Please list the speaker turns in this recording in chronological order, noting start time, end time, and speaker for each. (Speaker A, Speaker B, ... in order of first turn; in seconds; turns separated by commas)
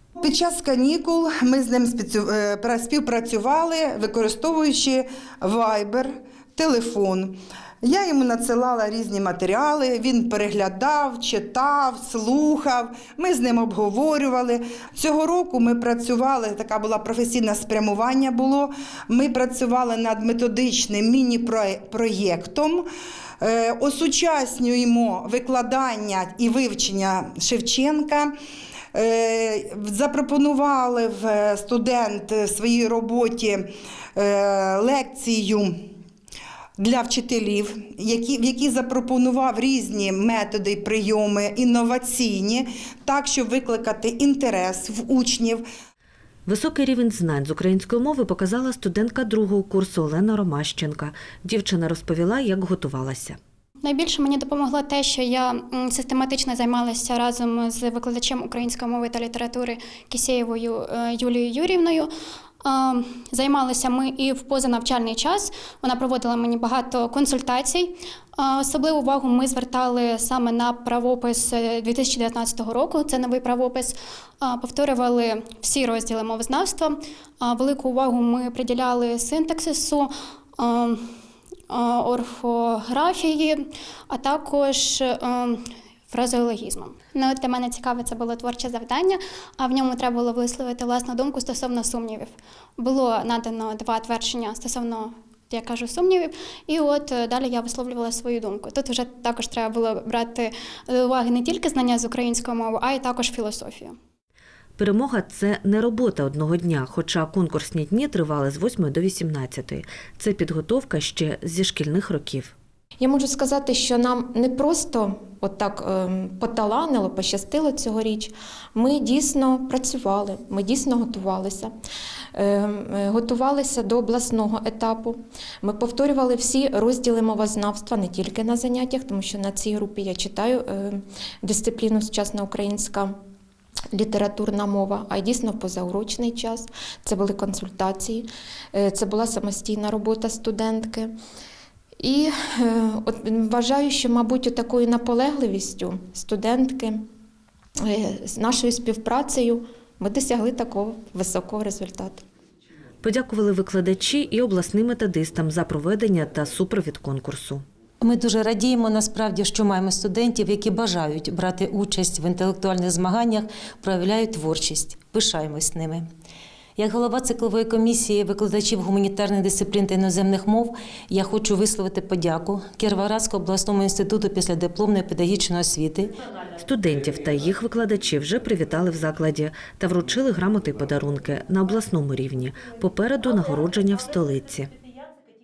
Speaker A: 0.2-22.8, Speaker A: 23.4-28.3, Speaker A: 28.9-35.7, Speaker A: 36.8-45.6, Speaker B: 46.5-53.4, Speaker C: 53.8-62.1, Speaker C: 62.6-81.0, Speaker C: 81.7-104.0, Speaker B: 104.8-112.5, Speaker D: 113.0-121.7, Speaker D: 122.3-133.1, Speaker D: 133.9-141.1, Speaker D: 142.0-147.0, Speaker D: 147.8-152.2, Speaker B: 153.0-157.6, Speaker E: 158.0-166.0, Speaker E: 166.8-176.1, Speaker B: 176.6-184.7